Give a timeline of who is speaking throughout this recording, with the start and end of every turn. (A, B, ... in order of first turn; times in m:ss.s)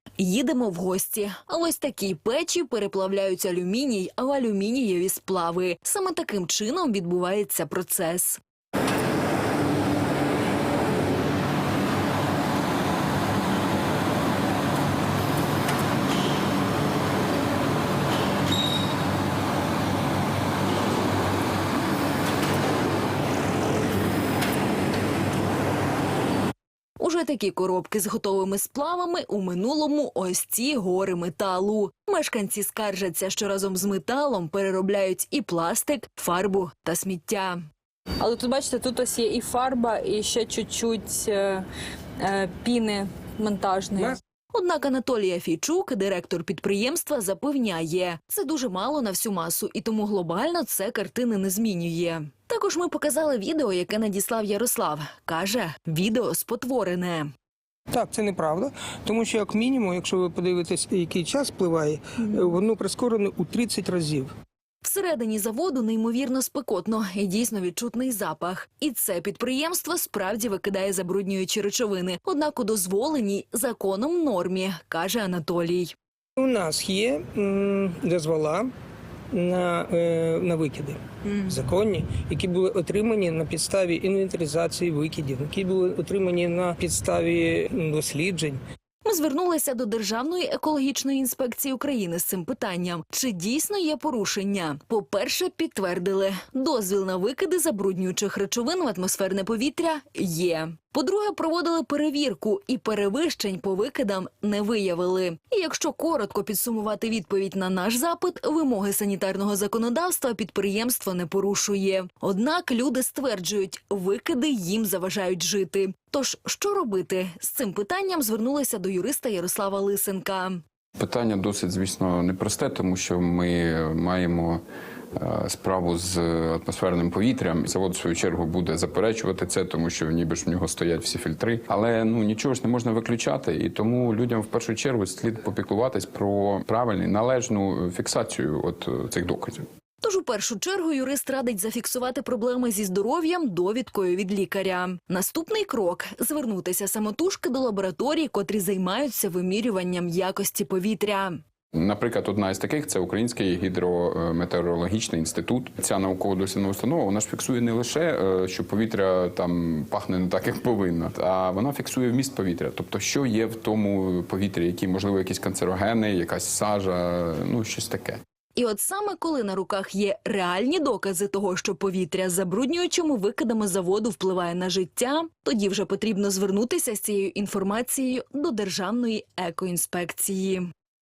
0:00.2-0:08.4 A
0:27.0-0:37.6 A
0:38.2-0:41.6 B
0:42.2-0:44.2 B
0:44.5-0:57.3 A
0:57.9-1:04.3 C
1:04.8-1:15.9 A
1:16.4-1:18.7 C
1:19.3-1:28.6 C
1:29.0-2:00.6 A
2:01.0-2:04.6 D
2:05.2-2:19.6 D
2:20.0-2:31.4 A
2:31.8-2:48.2 D
2:48.6-3:00.7 A